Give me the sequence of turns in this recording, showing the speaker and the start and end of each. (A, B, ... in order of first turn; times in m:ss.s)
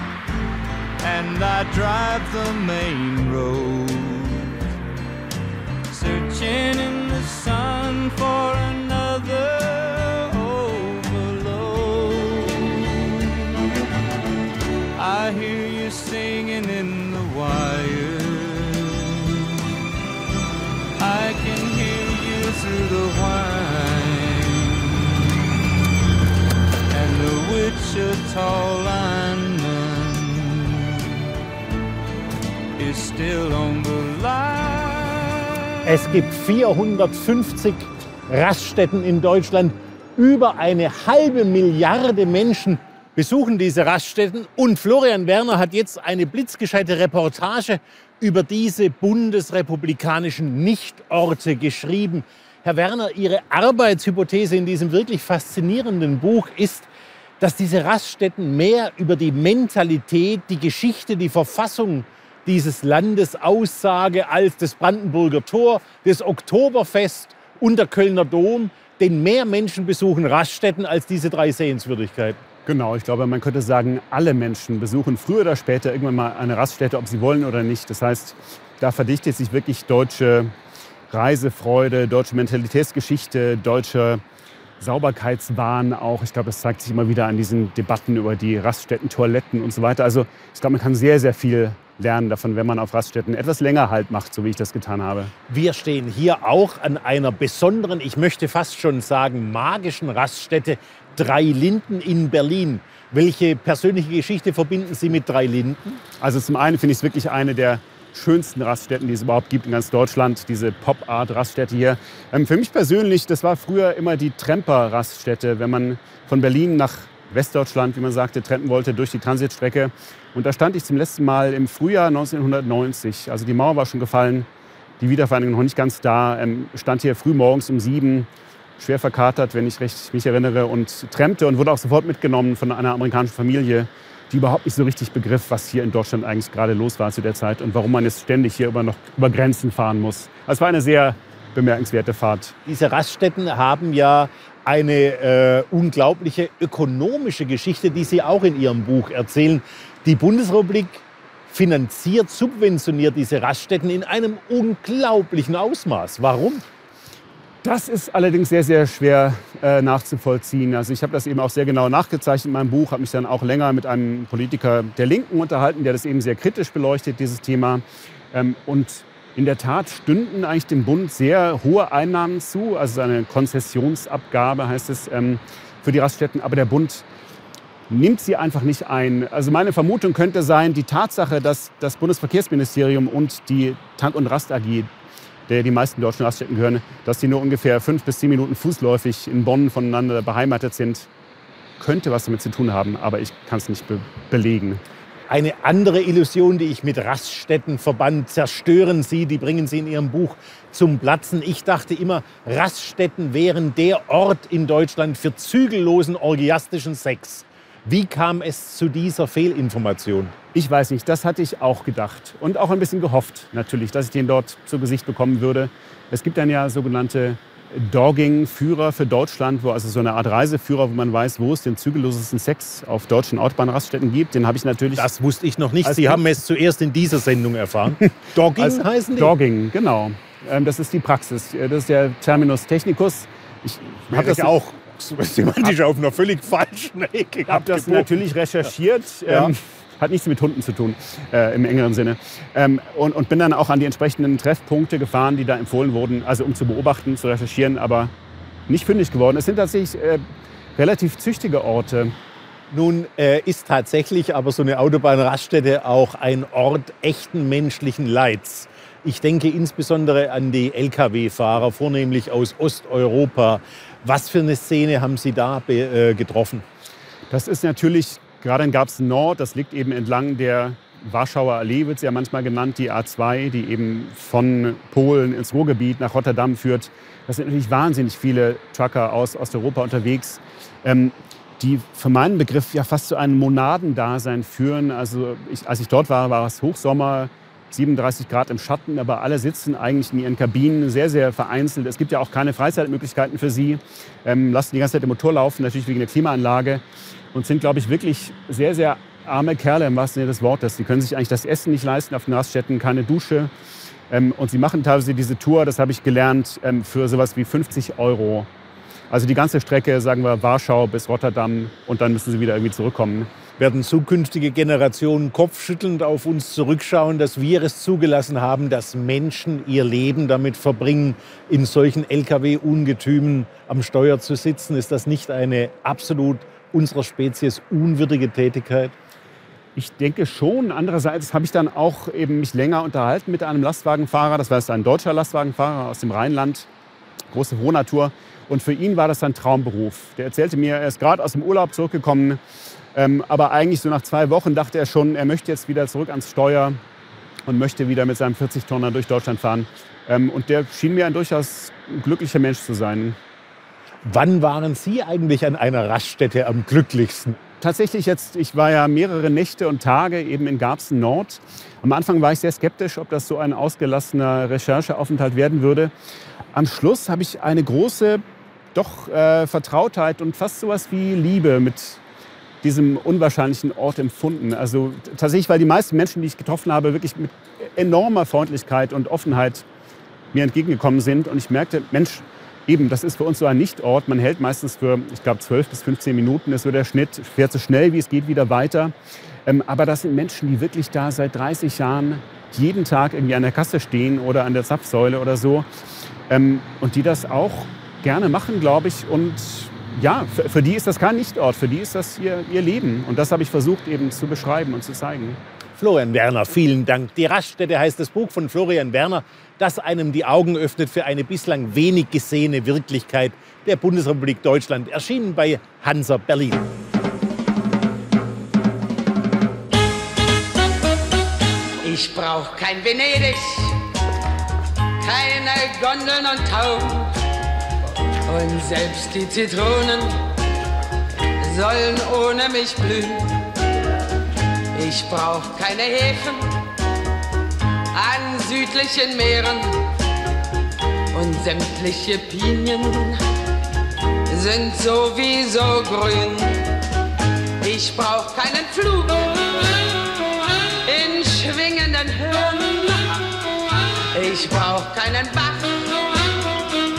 0:01.0-0:04.7 A
0:05.9-0:13.6 A
0:14.9-0:19.8 A
0:21.0-0:25.5 A
0:26.9-0:31.3 A
0:32.8-0:35.9 A
0:35.8-0:56.9 B
0:57.4-1:12.4 B
1:12.6-1:20.5 C
1:21.1-1:24.2 C
1:24.8-1:35.3 C
1:35.5-1:46.0 B
1:46.2-2:04.5 C
2:05.0-2:22.6 C
2:22.7-2:36.6 B
2:37.6-2:57.0 C
2:57.9-3:04.9 C
3:05.5-3:11.1 C
3:11.8-3:14.8 C
3:15.3-3:30.3 B
3:30.5-3:45.1 C
3:45.0-3:49.3 B
3:45.8-3:46.2 C
3:48.6-3:54.5 C
3:54.1-3:58.2 B
3:57.5-4:08.1 C
3:59.2-3:59.5 B
4:08.7-4:10.2 C
4:10.7-4:12.1 C
4:12.7-4:26.6 B
4:27.3-4:56.8 C
4:57.3-5:03.5 C
5:04.1-5:08.5 C
5:09.1-5:13.3 C
5:13.6-5:28.9 B
5:29.8-5:36.7 C
5:37.3-5:42.4 C
5:42.9-5:46.8 C
5:47.4-5:53.2 C
5:54.0-5:57.4 B
5:57.6-6:05.9 C
6:06.5-6:08.2 C
6:08.7-6:12.0 C
6:12.6-6:19.6 C
6:20.3-6:28.9 C
6:29.4-6:35.6 C
6:36.3-6:45.4 C
6:45.8-6:56.6 B
7:01.8-7:03.8 D
7:05.0-7:07.1 D
7:08.3-7:10.2 D
7:11.4-7:13.4 D
7:14.7-7:16.6 D
7:17.9-7:19.9 D
7:21.1-7:23.2 D
7:24.3-7:26.7 D
7:27.6-7:30.3 D
7:30.8-7:33.4 D
7:34.1-7:36.4 D